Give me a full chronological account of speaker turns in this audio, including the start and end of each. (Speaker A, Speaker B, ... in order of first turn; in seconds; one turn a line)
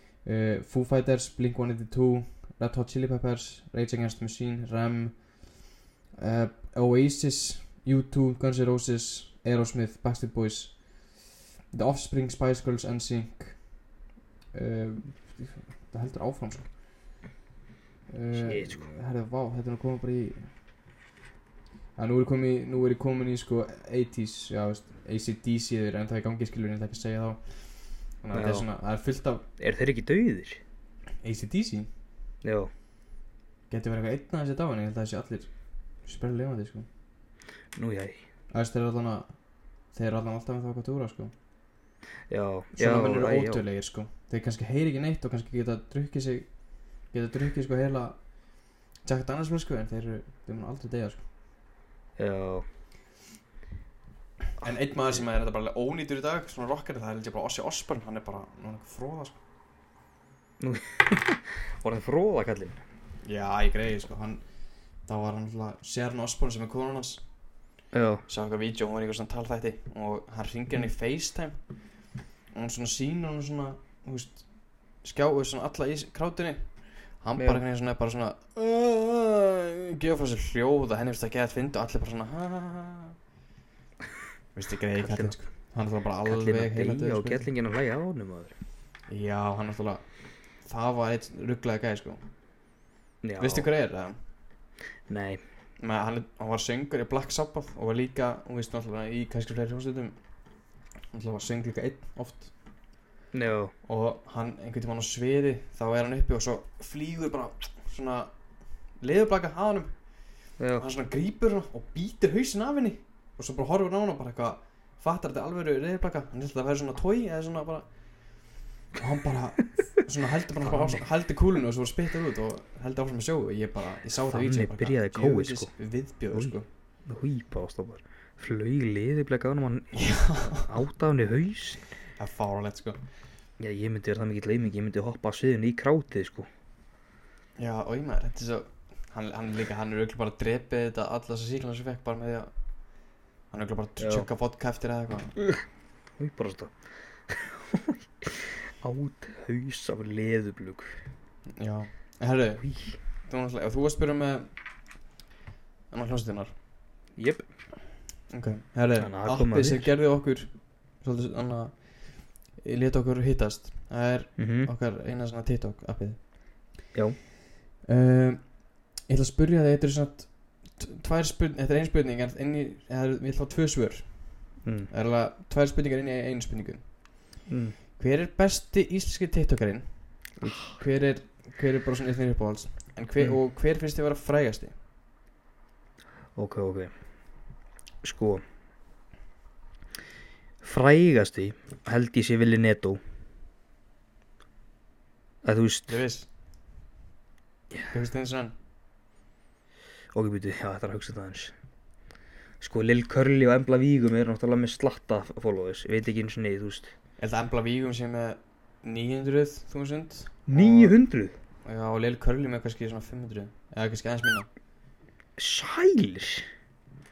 Speaker A: 0.2-5.2
Speaker A: 6.2-10.8
Speaker A: 11.7-13.6
Speaker A: 14.5-16.7
Speaker A: 18.1-20.5
Speaker B: 18.3-18.9
Speaker A: 22.0-27.4
Speaker A: 28.2-29.4
Speaker B: 28.3-28.7
Speaker B: 29.6-30.6
Speaker A: 31.2-31.9
Speaker B: 32.4-32.7
Speaker A: 33.7-35.5
Speaker A: 36.0-36.9
Speaker B: 37.7-38.2
Speaker A: 38.5-39.3
Speaker A: 39.9-41.3
Speaker B: 42.3-43.6
Speaker A: 42.8-46.5
Speaker A: 47.1-48.2
Speaker A: 49.0-51.2
Speaker B: 52.2-52.7
Speaker A: 54.6-59.4
Speaker B: 54.7-55.2
Speaker B: 60.6-62.8
Speaker A: 63.2-64.4
Speaker A: 65.1-67.2
Speaker B: 67.9-68.2
Speaker A: 68.3-71.6
Speaker A: 72.5-74.5
Speaker A: 75.0-76.7
Speaker A: 77.2-83.2
Speaker A: 84.5-87.5
Speaker B: 85.0-85.3
Speaker B: 86.2-88.5
Speaker A: 89.1-90.0
Speaker A: 90.7-92.2
Speaker B: 93.2-93.7
Speaker A: 93.4-94.2
Speaker B: 95.1-95.4
Speaker A: 95.8-100.2
Speaker A: 101.1-102.5
Speaker B: 103.3-103.7
Speaker A: 103.9-108.3
Speaker A: 109.0-109.9
Speaker B: 110.6-110.9
Speaker A: 110.8-117.9
Speaker A: 119.0-126.7
Speaker B: 120.6-121.0
Speaker B: 124.2-125.7
Speaker B: 127.1-130.1
Speaker A: 129.9-130.7
Speaker B: 130.7-131.8
Speaker A: 132.2-133.0
Speaker B: 133.6-136.5
Speaker A: 137.6-142.5
Speaker A: 143.5-145.4
Speaker B: 144.0-144.3
Speaker B: 146.2-146.7
Speaker B: 147.3-151.0
Speaker A: 151.6-152.7
Speaker B: 152.6-153.0
Speaker A: 153.2-154.5
Speaker A: 155.9-156.5
Speaker B: 157.2-157.4
Speaker A: 158.3-161.8
Speaker B: 159.0-159.9
Speaker A: 162.6-166.2
Speaker B: 164.4-164.7
Speaker B: 166.9-167.2
Speaker A: 167.9-168.5
Speaker A: 169.1-174.2
Speaker B: 174.6-174.9
Speaker A: 174.9-176.9
Speaker B: 177.5-177.8
Speaker A: 178.0-184.7
Speaker B: 180.4-180.8
Speaker B: 186.4-186.9
Speaker B: 188.0-188.4
Speaker B: 190.6-193.0
Speaker B: 195.4-196.0
Speaker A: 195.9-196.3
Speaker A: 197.9-198.5
Speaker B: 200.1-201.5
Speaker B: 202.6-206.9
Speaker A: 207.2-211.0
Speaker B: 210.5-211.3
Speaker A: 211.7-214.5
Speaker B: 215.4-216.5